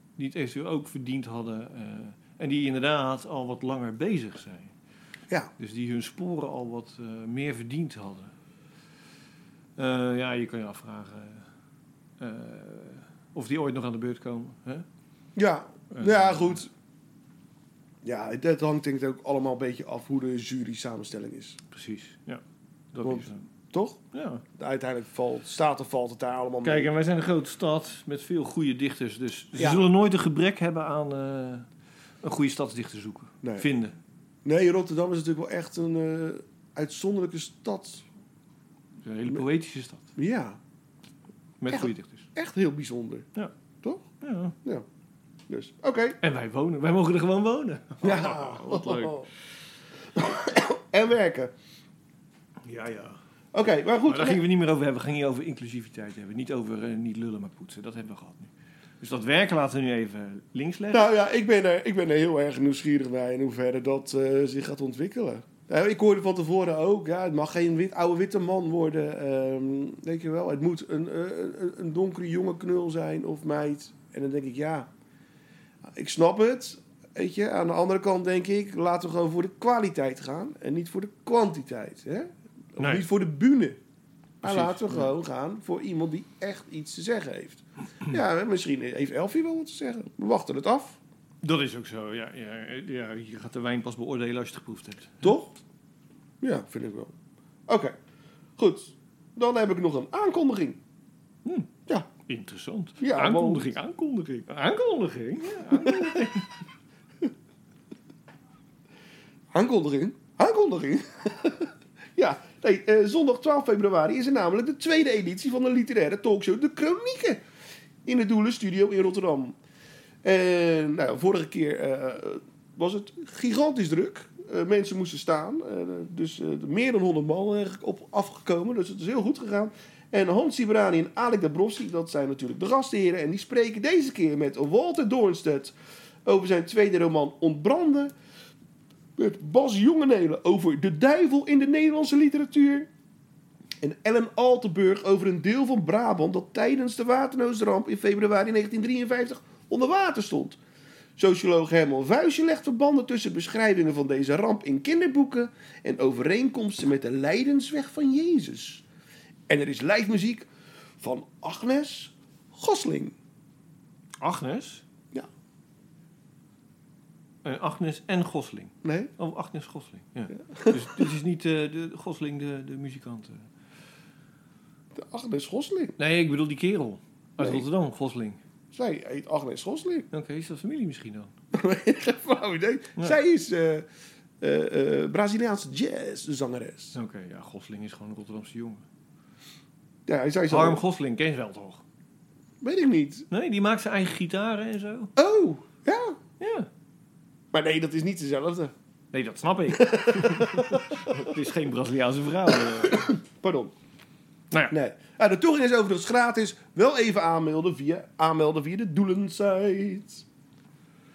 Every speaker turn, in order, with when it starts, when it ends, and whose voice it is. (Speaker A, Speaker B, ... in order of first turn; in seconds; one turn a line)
Speaker A: 0.2-4.7
Speaker A: 5.6-8.3
Speaker A: 9.8-11.5
Speaker A: 12.2-14.9
Speaker B: 15.4-16.7
Speaker A: 15.9-16.6
Speaker B: 18.0-21.6
Speaker A: 21.7-22.4
Speaker A: 22.9-23.4
Speaker B: 23.0-24.0
Speaker A: 24.1-24.4
Speaker B: 24.5-26.9
Speaker A: 26.6-31.7
Speaker B: 29.6-29.9
Speaker A: 32.2-34.0
Speaker B: 33.4-33.7
Speaker B: 34.5-38.1
Speaker A: 39.0-40.1
Speaker B: 40.2-40.6
Speaker A: 41.6-42.3
Speaker B: 41.7-43.3
Speaker A: 44.2-44.5
Speaker B: 45.5-46.2
Speaker A: 46.2-49.3
Speaker B: 48.0-49.3
Speaker B: 50.1-51.5
Speaker A: 52.7-53.2
Speaker B: 53.5-54.4
Speaker A: 54.1-61.1
Speaker B: 60.9-74.9
Speaker B: 75.9-83.8
Speaker A: 82.8-83.1
Speaker B: 84.4-91.0
Speaker A: 84.4-85.1
Speaker A: 91.4-95.3
Speaker B: 95.2-95.5
Speaker B: 96.4-97.1
Speaker B: 97.7-98.0
Speaker B: 98.6-100.8
Speaker A: 102.3-106.5
Speaker B: 103.0-103.7
Speaker B: 105.7-106.2
Speaker B: 109.5-117.4
Speaker B: 118.0-119.6
Speaker B: 120.2-138.1
Speaker B: 139.2-142.9
Speaker B: 143.8-150.6
Speaker B: 151.2-158.8
Speaker B: 159.5-160.5
Speaker B: 161.0-163.2
Speaker A: 164.2-164.8
Speaker A: 167.4-173.5
Speaker B: 168.8-169.1
Speaker B: 170.3-171.1
Speaker B: 174.9-175.9
Speaker A: 176.0-178.4
Speaker B: 177.4-177.6
Speaker B: 178.7-180.1
Speaker A: 180.1-181.3
Speaker B: 181.5-183.9
Speaker B: 184.4-187.0
Speaker A: 186.9-188.8
Speaker B: 190.1-190.8
Speaker A: 190.5-191.8
Speaker B: 192.6-193.3
Speaker A: 193.3-195.1
Speaker B: 195.2-196.2
Speaker A: 196.4-196.7
Speaker B: 197.5-198.7
Speaker A: 199.1-203.2
Speaker B: 199.7-201.2
Speaker B: 202.5-203.7
Speaker B: 204.7-210.2